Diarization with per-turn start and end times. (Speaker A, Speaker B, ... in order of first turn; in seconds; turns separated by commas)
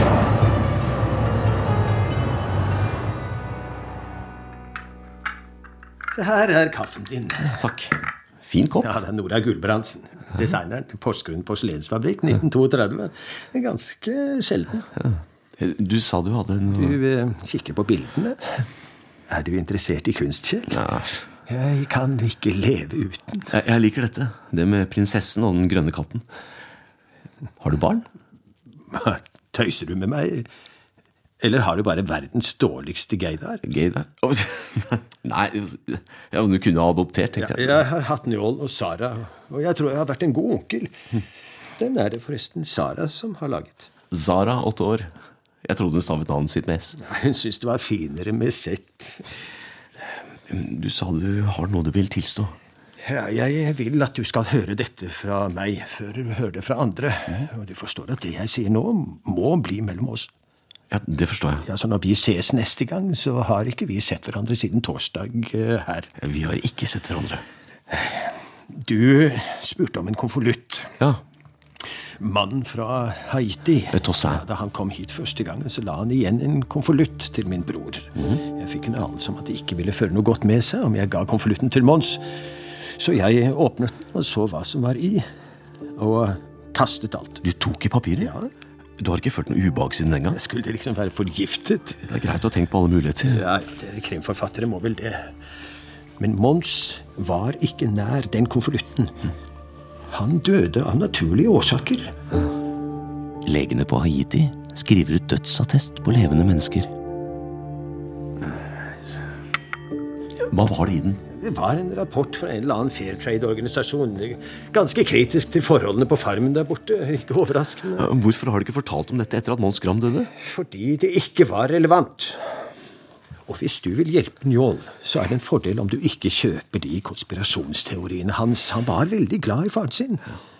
Speaker A: 6.1-7.6, Speaker B: 7.5-8.9, Speaker A: 8.8-14.9, Speaker B: 15.0-17.0, Speaker A: 16.7-18.4, Speaker A: 19.3-20.8, Speaker B: 20.7-21.2, Speaker A: 21.5-23.5, Speaker B: 23.5-26.2, Speaker B: 27.6-28.1, Speaker A: 28.9-30.5, Speaker A: 31.4-33.6, Speaker B: 33.6-37.9, Speaker A: 37.4-41.0, Speaker A: 41.8-43.9, Speaker B: 44.1-45.1, Speaker B: 45.6-47.0, Speaker A: 47.0-49.2, Speaker B: 50.5-52.5, Speaker A: 53.0-60.3, Speaker B: 60.9-61.6, Speaker A: 61.6-66.1, Speaker B: 66.2-67.4, Speaker A: 67.9-70.9, Speaker A: 72.2-82.2, Speaker B: 73.9-74.5, Speaker B: 78.2-78.4, Speaker A: 83.0-85.2, Speaker A: 86.0-87.4, Speaker B: 87.4-88.3, Speaker A: 88.2-88.5, Speaker B: 89.0-90.4, Speaker A: 90.3-92.1, Speaker B: 92.1-93.4, Speaker A: 93.2-95.3, Speaker A: 96.2-99.1, Speaker A: 100.1-102.1, Speaker B: 103.5-106.9, Speaker B: 110.5-111.2, Speaker A: 111.3-118.1, Speaker B: 118.0-120.3, Speaker A: 120.4-122.5, Speaker A: 123.5-130.2